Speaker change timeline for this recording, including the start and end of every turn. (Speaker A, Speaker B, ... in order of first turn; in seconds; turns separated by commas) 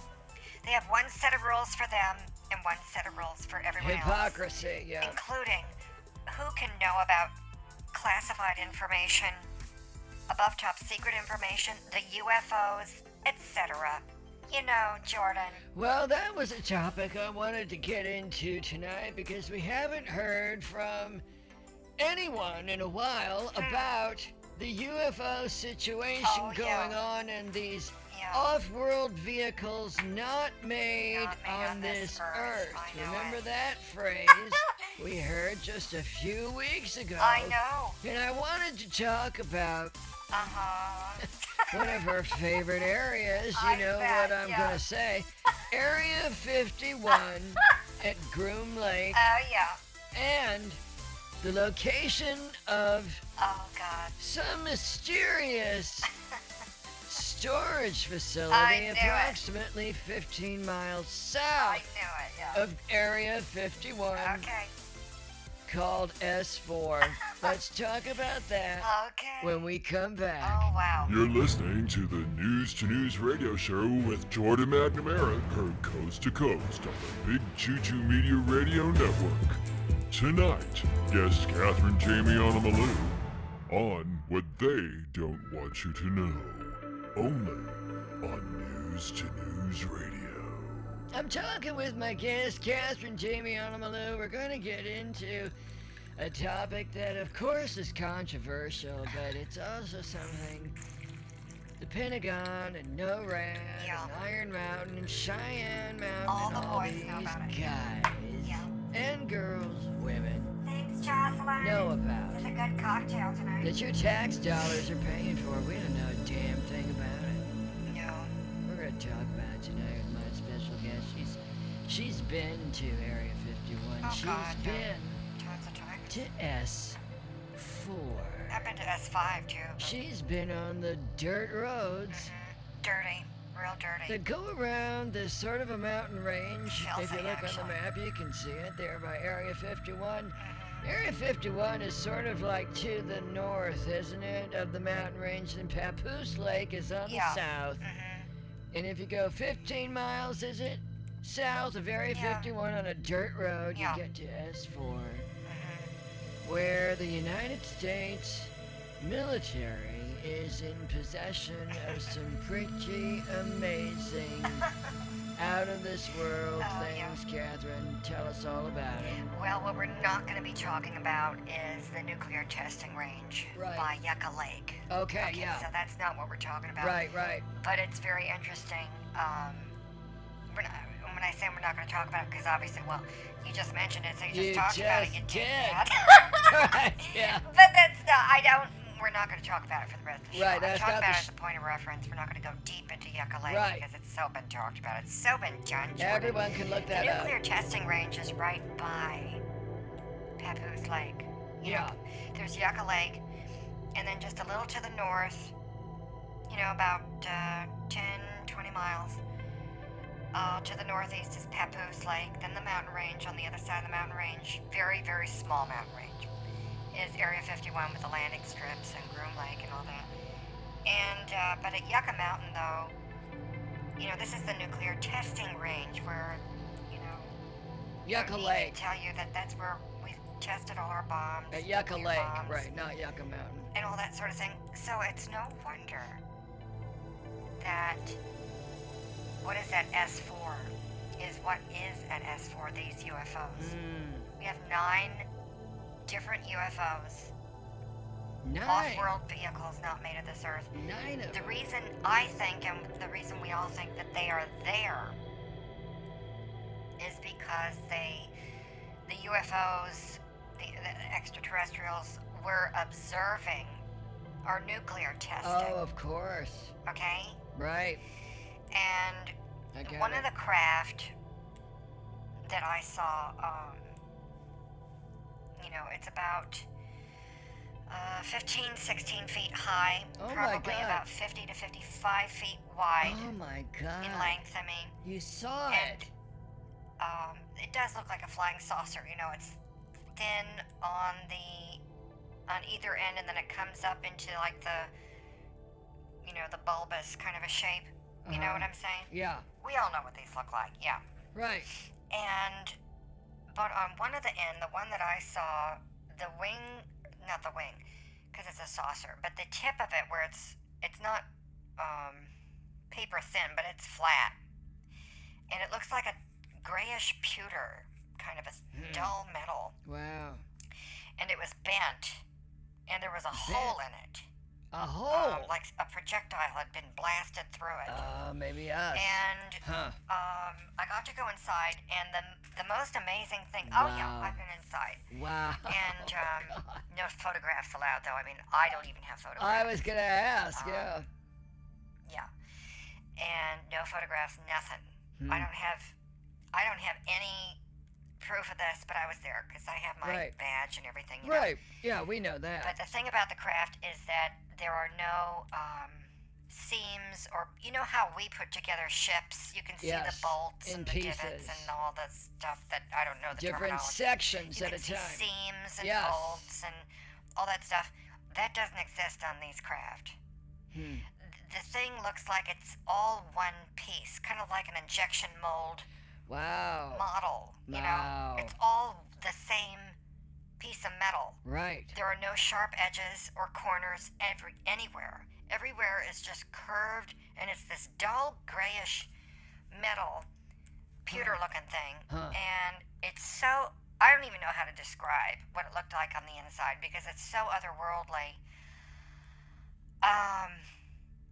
Speaker A: 0.6-4.4, Speaker B: 3.8-5.2, Speaker A: 5.0-5.8, Speaker A: 6.3-7.3, Speaker A: 7.9-9.5, Speaker A: 10.3-15.6, Speaker B: 15.7-21.2, Speaker B: 22.0-40.0, Speaker A: 23.6-23.9, Speaker A: 26.2-27.0, Speaker A: 28.1-28.5, Speaker A: 31.1-33.5, Speaker A: 37.2-38.0, Speaker A: 40.3-42.0, Speaker B: 41.7-49.2, Speaker A: 43.5-44.8, Speaker A: 49.1-49.8, Speaker B: 50.1-50.8, Speaker B: 51.4-53.2, Speaker A: 53.4-54.2, Speaker B: 54.2-56.1, Speaker B: 57.1-61.8, Speaker A: 58.5-59.4, Speaker A: 61.6-62.6, Speaker B: 62.5-64.5, Speaker A: 64.2-64.7, Speaker B: 65.7-68.9, Speaker A: 68.8-69.6, Speaker B: 69.4-70.7, Speaker A: 70.4-71.1, Speaker C: 71.1-91.1, Speaker B: 91.1-95.5, Speaker B: 96.2-100.8, Speaker B: 101.8-110.6, Speaker A: 103.8-104.1, Speaker A: 106.3-107.6, Speaker A: 108.4-108.7, Speaker A: 110.6-113.7, Speaker B: 111.6-112.5, Speaker B: 113.6-117.5, Speaker A: 117.9-118.3, Speaker B: 118.6-125.2, Speaker A: 124.0-126.2, Speaker B: 126.1-127.0, Speaker B: 127.5-128.7, Speaker A: 128.5-130.0, Speaker B: 129.8-132.3, Speaker A: 132.1-134.2, Speaker B: 134.1-147.8, Speaker A: 136.7-137.8, Speaker A: 140.4-140.9, Speaker A: 147.1-148.3, Speaker B: 148.7-155.3, Speaker A: 152.1-152.5, Speaker A: 153.7-154.0, Speaker A: 155.4-155.9, Speaker B: 156.4-164.7, Speaker B: 165.4-169.2, Speaker A: 166.6-167.2, Speaker A: 169.2-177.0, Speaker B: 173.6-173.9, Speaker B: 174.9-175.7, Speaker B: 176.8-177.5, Speaker A: 177.5-179.8, Speaker A: 180.5-199.4, Speaker B: 184.3-187.5, Speaker B: 190.3-191.3, Speaker B: 193.5-193.9, Speaker B: 196.0-197.4, Speaker A: 200.4-203.2, Speaker B: 201.6-202.0, Speaker A: 203.9-205.5, Speaker A: 206.5-209.2, Speaker A: 210.3-216.3, Speaker A: 216.9-220.1, Speaker A: 220.9-222.9, Speaker A: 224.0-227.3, Speaker B: 228.1-228.8, Speaker A: 228.1-232.7, Speaker B: 231.5-233.7, Speaker A: 233.7-236.2, Speaker A: 237.6-238.2, Speaker A: 239.4-243.7, Speaker B: 243.6-244.3, Speaker A: 244.4-245.3, Speaker A: 246.1-247.3, Speaker B: 248.4-249.2, Speaker A: 248.7-250.7, Speaker B: 250.7-251.6, Speaker A: 251.3-255.2, Speaker A: 257.0-258.3, Speaker A: 259.1-263.8, Speaker A: 264.4-265.8, Speaker B: 265.4-266.7, Speaker A: 266.9-267.4, Speaker B: 267.6-268.0, Speaker A: 268.7-271.1, Speaker B: 269.7-270.3, Speaker A: 272.4-273.9, Speaker A: 275.6-276.7, Speaker A: 277.9-283.2, Speaker B: 280.2-281.1, Speaker B: 283.0-284.4, Speaker A: 284.0-285.0, Speaker B: 285.0-286.1, Speaker A: 285.7-286.1, Speaker A: 287.0-289.6, Speaker A: 290.1-291.8, Speaker A: 292.5-294.9, Speaker A: 296.2-301.0, Speaker B: 298.2-299.5, Speaker B: 301.4-301.7, Speaker A: 302.1-302.8, Speaker A: 303.5-311.3, Speaker A: 311.8-312.3, Speaker A: 312.9-314.4, Speaker A: 315.5-319.8, Speaker B: 318.7-319.1, Speaker B: 319.9-320.4, Speaker A: 321.2-322.2, Speaker A: 322.9-324.3, Speaker B: 323.3-323.8, Speaker B: 324.7-325.6, Speaker A: 325.1-328.1, Speaker B: 327.9-330.0, Speaker A: 328.9-335.1, Speaker B: 333.6-334.4, Speaker B: 335.1-336.8, Speaker A: 335.7-339.8, Speaker B: 339.4-341.1, Speaker A: 340.6-341.0, Speaker A: 343.2-345.9, Speaker B: 345.2-345.5, Speaker A: 346.5-347.6, Speaker A: 348.2-351.6, Speaker B: 350.0-350.4, Speaker B: 351.2-352.8, Speaker A: 352.6-370.2, Speaker B: 359.8-361.7, Speaker B: 363.4-365.3, Speaker B: 365.8-366.5, Speaker B: 370.7-371.1, Speaker A: 371.2-375.9, Speaker B: 376.3-377.1, Speaker A: 376.9-380.0, Speaker B: 377.7-378.6, Speaker A: 380.6-381.4, Speaker B: 381.4-382.0, Speaker A: 381.9-389.1, Speaker A: 389.7-390.3, Speaker A: 391.0-398.4, Speaker B: 391.1-391.4, Speaker B: 392.1-392.4, Speaker A: 400.0-400.7